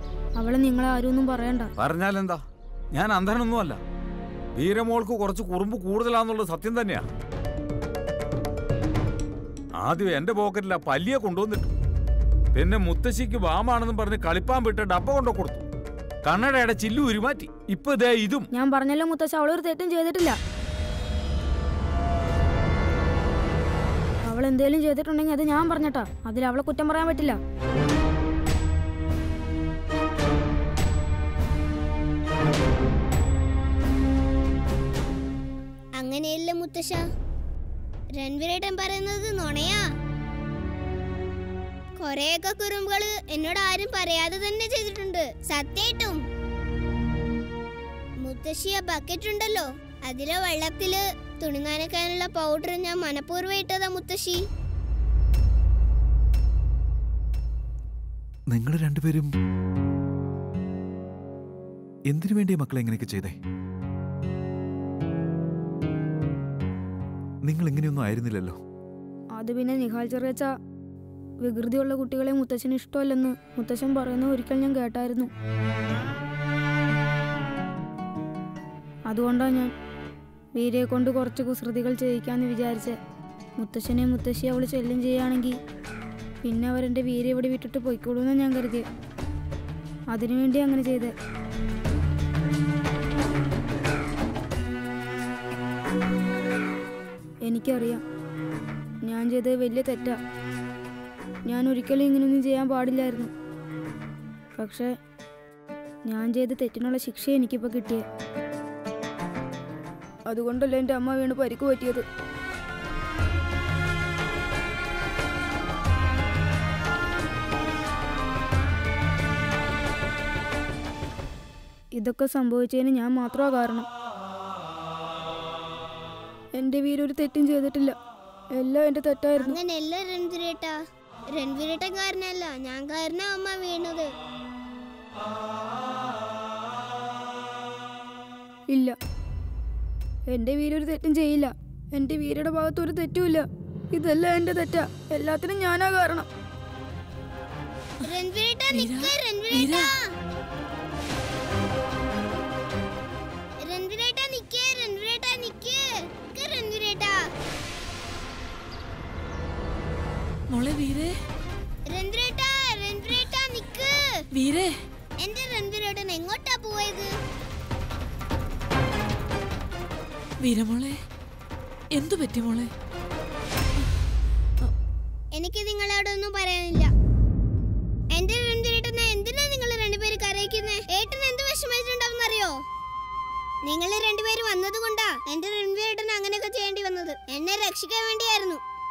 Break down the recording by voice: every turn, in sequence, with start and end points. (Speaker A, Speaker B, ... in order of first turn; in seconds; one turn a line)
Speaker A: 0.4-1.7
Speaker B: 1.8-3.8
Speaker B: 4.6-7.1
Speaker B: 9.8-11.7
Speaker B: 12.5-15.7
Speaker B: 16.2-18.5
Speaker A: 18.5-20.4
Speaker A: 24.3-27.4
Speaker C: 36.0-37.1
Speaker C: 38.2-39.9
Speaker C: 42.0-46.2
Speaker C: 48.2-54.4
Speaker D: 58.5-59.3
Speaker D: 62.1-63.4
Speaker D: 67.5-68.6
Speaker A: 69.4-70.5
Speaker A: 71.4-75.3
Speaker A: 79.1-79.7
Speaker A: 80.6-83.0
Speaker A: 83.6-85.6
Speaker A: 86.4-88.8
Speaker A: 90.1-91.1
Speaker A: 97.5-98.0
Speaker A: 99.1-100.2
Speaker A: 101.5-103.3
Speaker A: 104.6-104.9
Speaker A: 106.1-108.0
Speaker A: 110.3-112.0
Speaker A: 122.0-123.9
Speaker A: 126.6-128.0
Speaker A: 128.6-129.6
Speaker C: 129.4-130.8
Speaker C: 131.3-134.1
Speaker A: 138.7-139.0
Speaker A: 140.3-146.3
Speaker C: 148.1-150.0
Speaker E: 148.7-150.0
Speaker C: 153.6-157.2
Speaker E: 160.5-161.1
Speaker C: 161.9-164.2
Speaker E: 164.3-164.7
Speaker C: 165.2-167.1
Speaker E: 170.4-171.0
Speaker E: 171.9-172.7
Speaker C: 175.3-176.9
Speaker C: 178.1-182.6
Speaker C: 183.7-188.6